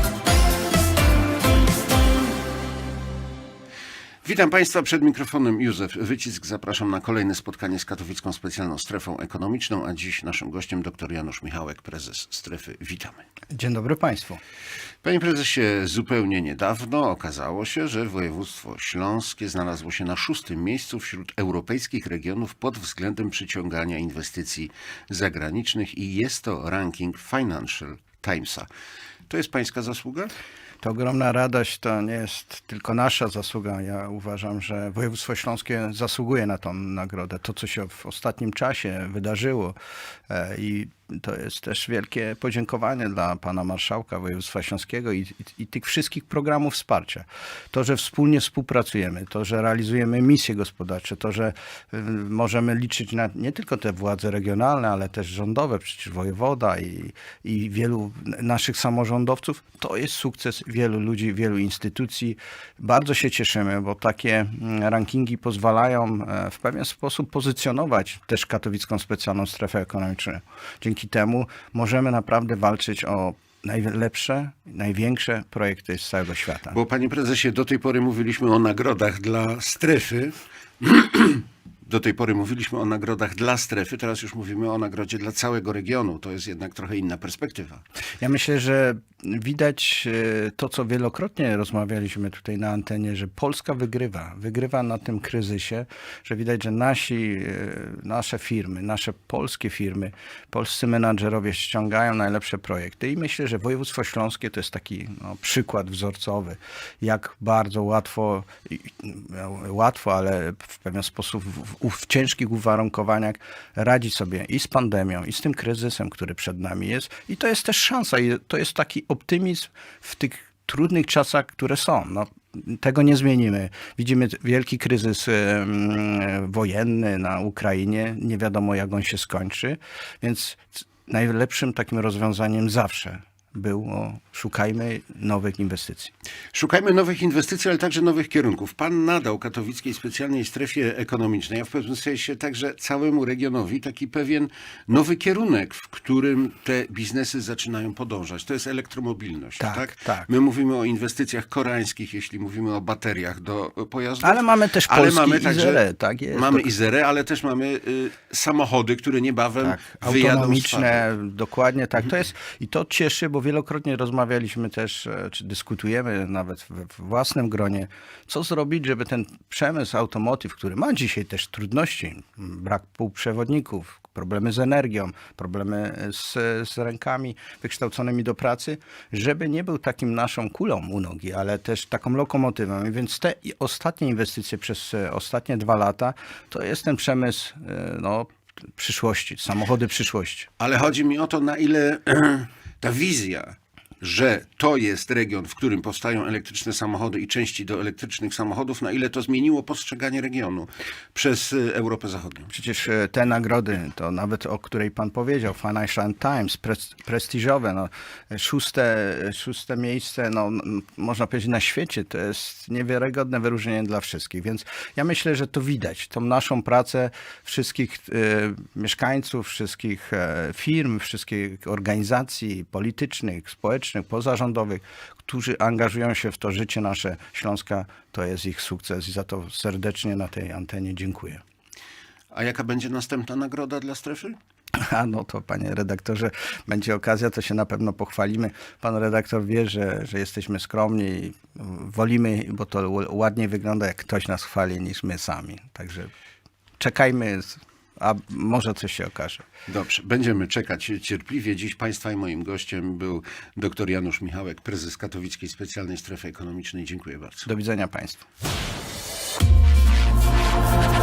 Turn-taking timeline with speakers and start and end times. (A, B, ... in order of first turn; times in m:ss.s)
0:04.2-0:13.2 A
0:13.5-0:14.4 B
0:15.0-0:28.7 A
0:29.3-0:30.3 A
0:30.8-0:39.8 B
0:40.3-1:16.8 B
1:16.7-1:27.8 A
1:28.2-2:16.1 B
2:16.5-2:35.8 A
2:29.6-2:30.3 B
2:34.2-2:36.7 B
2:36.3-2:41.0 A
2:39.6-3:10.5 B
3:10.6-3:22.5 A
3:22.5-3:51.4 B
3:52.3-3:54.4 A
3:54.8-4:06.1 B
4:06.8-4:09.5 B
4:09.7-4:17.5 A
4:17.4-4:18.2 B